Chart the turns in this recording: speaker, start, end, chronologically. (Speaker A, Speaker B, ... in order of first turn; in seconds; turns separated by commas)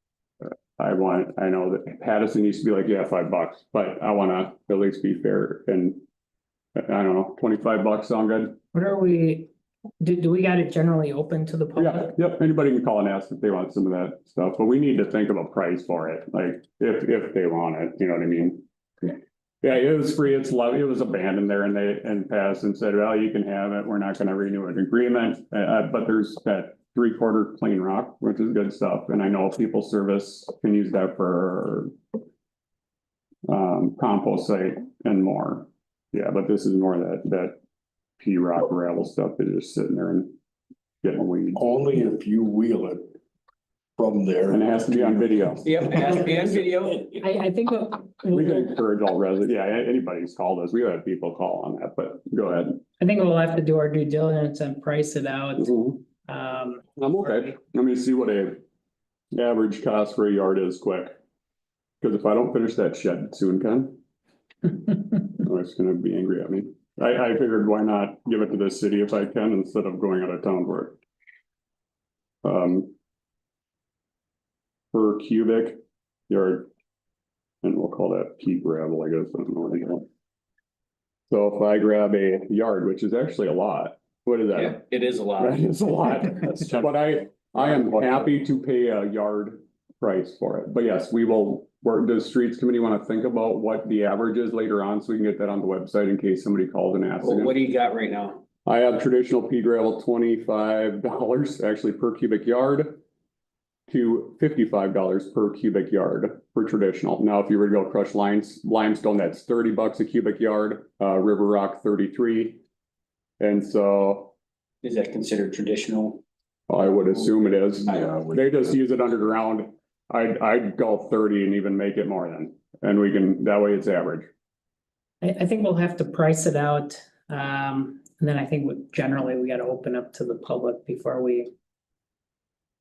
Speaker A: 0.4-6.0, Speaker A: 6.8-8.6, Speaker B: 8.7-12.1, Speaker A: 11.8-31.9, Speaker A: 33.5-37.6, Speaker A: 38.2-40.3, Speaker A: 41.0-41.6, Speaker C: 41.5-43.1, Speaker C: 44.0-47.0, Speaker A: 44.5-46.3, Speaker D: 45.6-47.2, Speaker B: 47.2-48.7, Speaker A: 48.3-52.8, Speaker B: 53.0-57.5, Speaker A: 55.6-56.0, Speaker A: 57.0-58.6, Speaker A: 59.3-61.1, Speaker A: 62.0-64.0, Speaker A: 65.3-71.0, Speaker A: 72.4-72.9, Speaker A: 74.9-76.7, Speaker A: 77.6-80.0, Speaker A: 81.3-97.5, Speaker D: 84.5-85.8, Speaker D: 97.2-98.4, Speaker A: 98.7-103.0, Speaker A: 103.9-112.6, Speaker A: 113.4-114.3, Speaker D: 114.8-116.2, Speaker A: 116.7-124.3, Speaker C: 118.0-118.4, Speaker B: 125.2-131.5